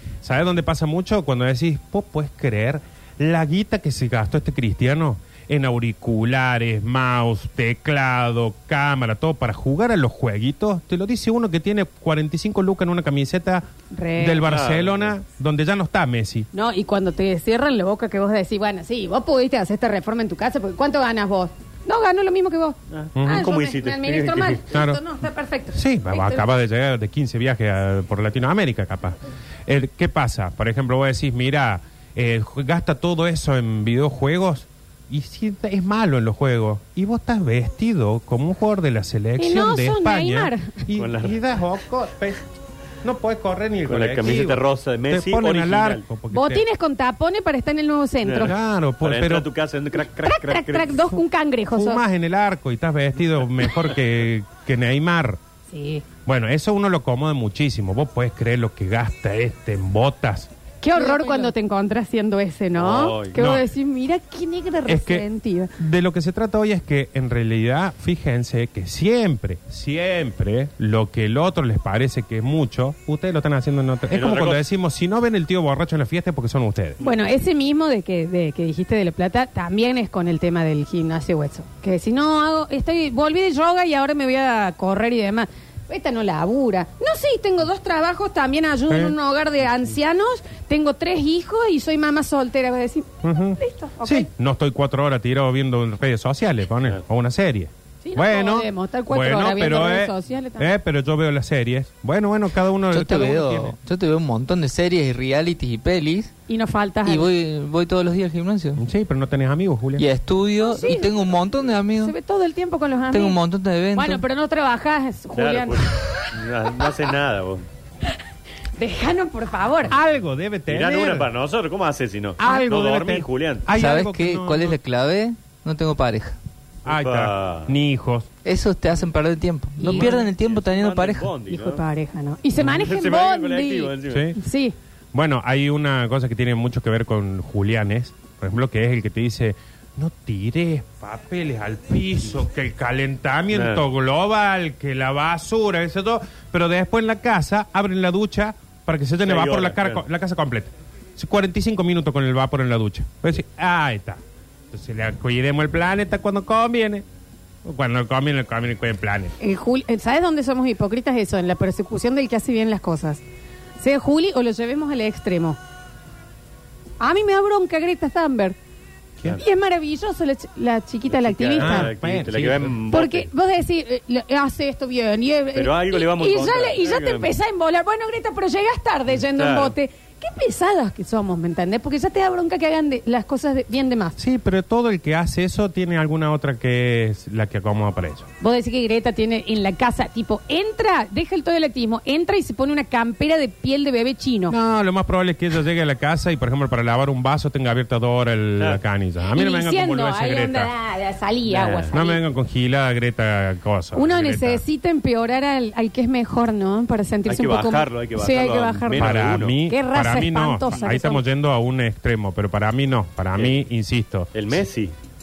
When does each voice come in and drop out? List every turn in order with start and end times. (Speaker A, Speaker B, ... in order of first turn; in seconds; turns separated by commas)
Speaker A: 0.2-13.6, Speaker B: 13.9-14.5, Speaker A: 14.2-16.5, Speaker C: 14.4-15.1, Speaker B: 16.5-26.4, Speaker C: 22.9-24.6, Speaker A: 23.1-23.5, Speaker A: 24.7-25.0, Speaker A: 25.7-42.4, Speaker B: 39.4-40.8, Speaker C: 41.0-41.4, Speaker A: 43.0-46.6, Speaker C: 43.9-46.0, Speaker B: 46.3-48.5, Speaker C: 48.2-51.0, Speaker A: 48.4-49.5, Speaker B: 50.2-52.0, Speaker A: 51.7-55.4, Speaker B: 55.7-56.0, Speaker A: 56.3-60.5, Speaker B: 60.8-65.7, Speaker C: 62.8-63.4, Speaker A: 63.4-63.6, Speaker A: 64.9-65.2, Speaker A: 65.8-77.0, Speaker C: 74.1-74.6, Speaker B: 77.0-94.3, Speaker A: 88.9-89.1, Speaker A: 93.2-103.8, Speaker B: 98.0-100.7, Speaker D: 102.9-106.3, Speaker B: 106.5-107.3, Speaker D: 107.0-108.8, Speaker A: 108.8-110.0, Speaker D: 110.0-112.1, Speaker B: 110.6-111.3, Speaker B: 112.0-113.4, Speaker D: 113.1-114.2, Speaker B: 113.9-116.9, Speaker C: 115.4-117.6, Speaker B: 118.8-119.9, Speaker A: 119.9-121.3, Speaker C: 120.7-123.7, Speaker A: 122.4-124.8, Speaker D: 123.8-126.4, Speaker C: 126.9-127.7, Speaker A: 126.9-128.3, Speaker D: 128.4-131.3, Speaker B: 129.8-130.1, Speaker C: 129.9-131.8, Speaker B: 131.5-134.8, Speaker C: 132.6-134.3, Speaker A: 134.1-134.4, Speaker A: 135.1-157.1, Speaker C: 143.5-143.8, Speaker C: 149.2-150.0, Speaker A: 157.6-159.3, Speaker B: 159.4-163.2, Speaker B: 163.8-165.6, Speaker B: 167.0-168.6, Speaker B: 169.3-171.9, Speaker C: 171.2-173.3, Speaker A: 171.6-172.8, Speaker B: 172.9-184.2, Speaker C: 175.6-177.3, Speaker C: 179.2-179.8, Speaker A: 184.2-188.3, Speaker B: 188.4-194.6, Speaker A: 194.5-200.7, Speaker B: 199.3-202.2, Speaker C: 201.5-201.9, Speaker A: 201.9-204.6, Speaker B: 203.9-211.2, Speaker C: 207.3-209.6, Speaker A: 209.0-214.3, Speaker C: 214.3-214.9